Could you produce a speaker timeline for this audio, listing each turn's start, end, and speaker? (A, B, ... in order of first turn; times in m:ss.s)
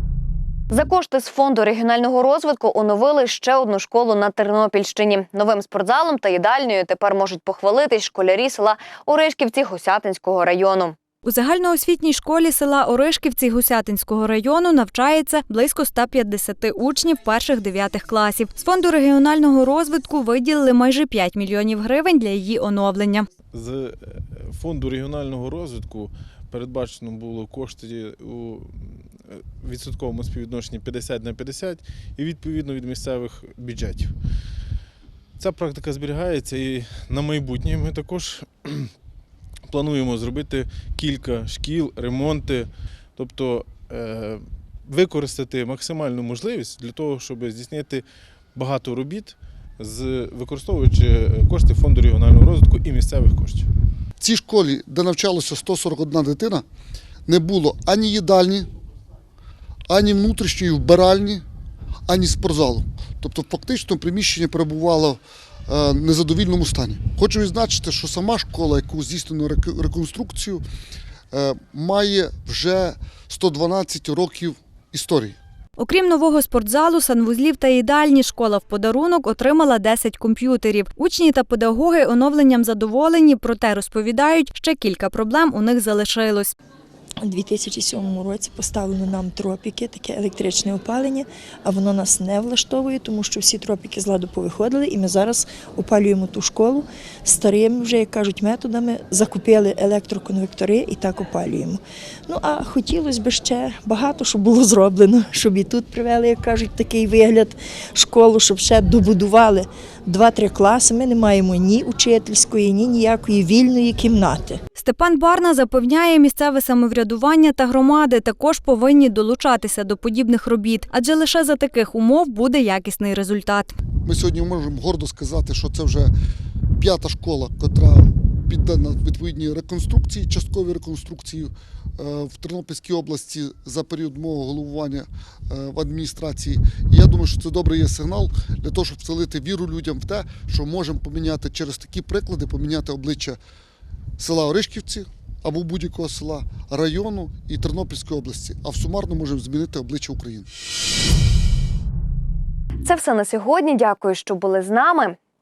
0:00.7-0:11.0 A
0:11.2-0:23.3 B
0:23.5-0:24.0 C
0:24.5-0:28.8 C
0:29.3-0:34.1 C
0:35.4-0:38.9 C
0:39.7-0:53.7 C
0:54.2-0:56.6 D
0:57.3-0:58.7 D
0:59.9-1:01.4 D
1:02.1-1:10.6 D
1:11.3-1:15.4 D
1:15.8-1:26.5 B
1:27.2-1:54.6 E
1:54.8-2:03.7 B
2:04.0-2:06.1 D
2:06.8-2:23.4 D
2:24.2-2:30.5 D
2:32.8-2:35.2 A